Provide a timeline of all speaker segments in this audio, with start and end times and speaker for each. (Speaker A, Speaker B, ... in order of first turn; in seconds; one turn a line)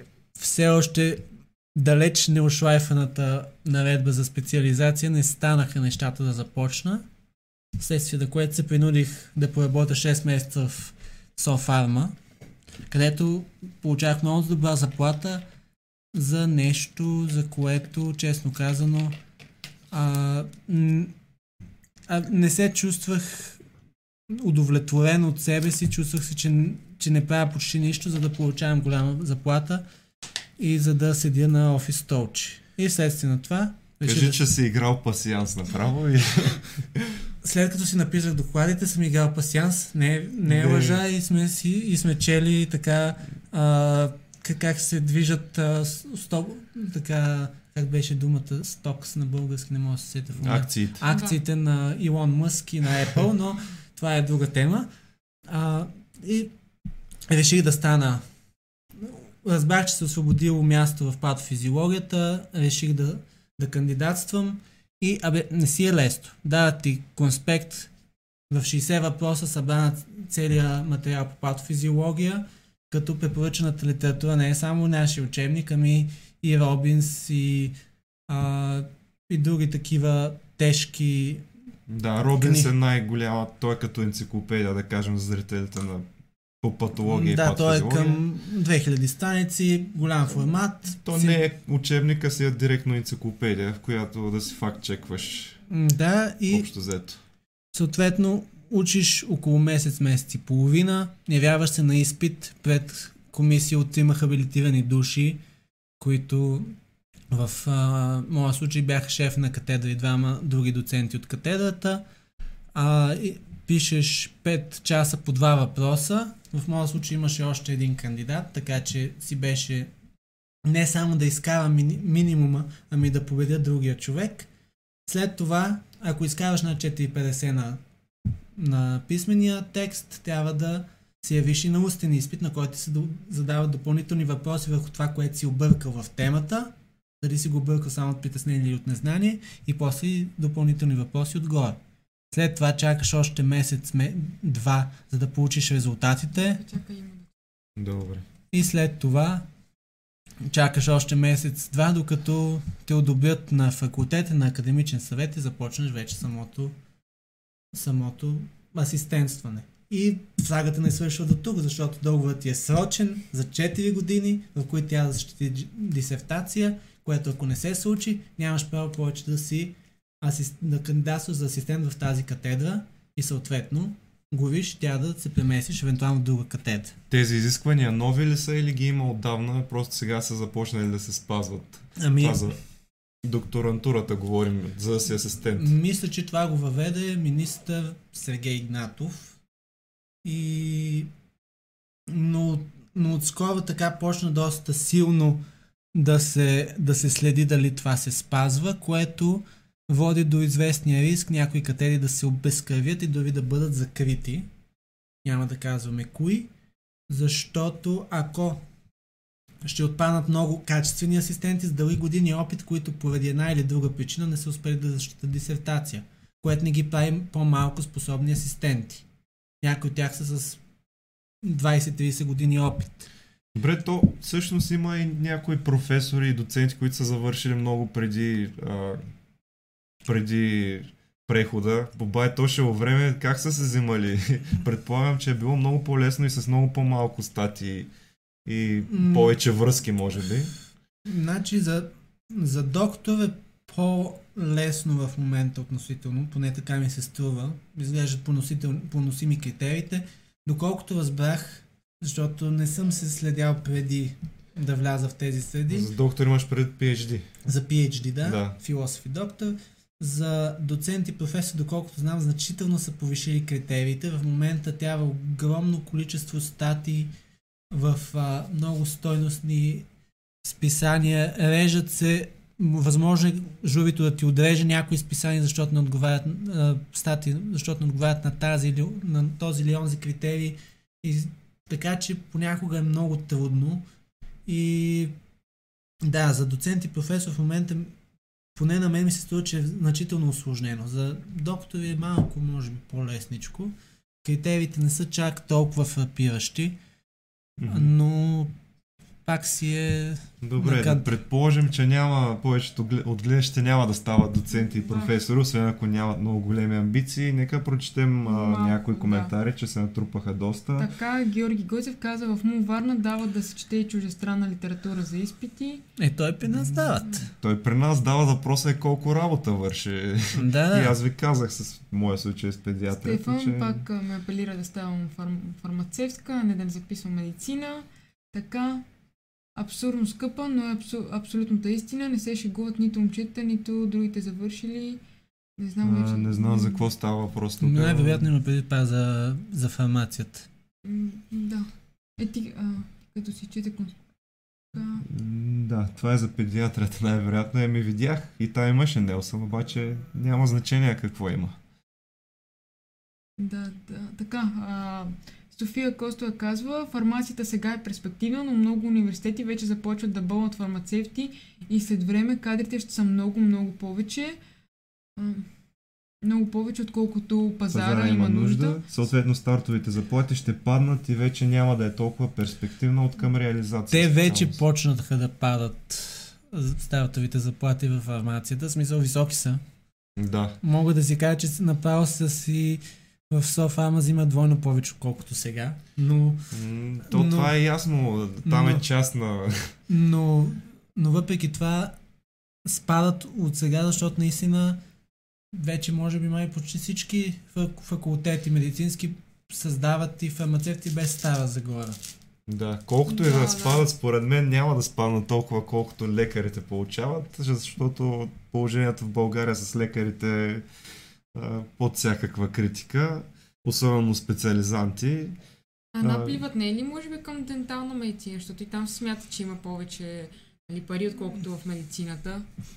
Speaker A: 0.3-1.2
Speaker A: 1.7-7.0
Speaker A: 7.8-12.2
Speaker A: 12.9-15.4
Speaker A: 16.1-19.1
Speaker A: 19.9-21.1
Speaker A: 22.1-23.6
Speaker A: 24.3-29.8
Speaker A: 30.6-34.4
Speaker B: 34.0-37.2
Speaker A: 37.4-54.9
Speaker B: 40.5-41.0
Speaker B: 50.4-51.0
Speaker C: 51.1-51.4
Speaker A: 55.5-56.5
Speaker A: 57.3-58.2
Speaker A: 59.0-67.9
Speaker A: 68.5-77.8
Speaker A: 78.3-81.4
Speaker B: 81.9-86.1
Speaker A: 82.4-82.7
Speaker B: 86.6-88.2
Speaker A: 87.0-91.4
Speaker B: 91.0-95.6
Speaker A: 95.7-96.7
Speaker B: 96.5-97.2
Speaker A: 97.7-105.4
Speaker A: 106.0-106.7
Speaker A: 107.3-112.0
Speaker A: 112.7-119.9
Speaker A: 120.6-124.5
Speaker A: 125.0-127.8
Speaker A: 128.5-141.8
Speaker A: 142.3-146.6
Speaker C: 146.3-147.3
Speaker B: 147.8-148.2
Speaker A: 148.5-149.4
Speaker A: 150.4-156.7
Speaker A: 157.7-176.9
Speaker B: 177.1-182.6
Speaker A: 182.0-182.4
Speaker B: 183.2-185.7
Speaker A: 185.5-189.4
Speaker A: 190.2-191.1
Speaker A: 192.1-195.4
Speaker A: 195.9-204.5
Speaker A: 205.2-206.5
Speaker A: 207.1-208.6
Speaker A: 209.6-219.0
Speaker A: 219.6-220.6
Speaker A: 221.4-223.1
Speaker B: 223.5-229.0
Speaker B: 230.0-237.9
Speaker B: 238.4-240.5
Speaker A: 238.9-239.3
Speaker A: 241.1-255.9
Speaker B: 255.7-257.3
Speaker A: 257.4-267.1
Speaker B: 258.2-258.6
Speaker A: 267.7-269.9
Speaker A: 270.4-283.8
Speaker A: 284.4-285.1
Speaker A: 286.0-287.9
Speaker A: 288.6-296.8
Speaker B: 297.6-297.9
Speaker A: 297.7-298.5
Speaker A: 299.2-301.1
Speaker B: 300.4-310.9
Speaker C: 304.6-305.1
Speaker C: 308.2-309.3
Speaker C: 310.8-315.8
Speaker A: 316.0-317.2
Speaker B: 316.5-323.8
Speaker A: 320.3-320.9
Speaker C: 323.0-328.8
Speaker C: 329.6-335.0
Speaker C: 335.6-336.9
Speaker B: 335.8-338.3
Speaker A: 337.6-340.5
Speaker C: 340.8-343.9
Speaker C: 344.7-345.0
Speaker B: 345.0-351.6
Speaker C: 353.4-364.4
Speaker C: 365.2-365.5
Speaker C: 366.2-368.8
Speaker B: 367.7-374.6
Speaker A: 373.9-379.6
Speaker B: 380.1-380.6
Speaker A: 380.6-386.4
Speaker B: 386.5-389.7
Speaker A: 387.1-387.5
Speaker A: 388.4-388.8
Speaker A: 389.9-391.9
Speaker A: 392.6-394.8
Speaker A: 395.5-402.0
Speaker B: 402.5-410.6
Speaker C: 403.1-403.9
Speaker B: 411.3-415.4
Speaker C: 415.9-422.4
Speaker B: 416.0-416.4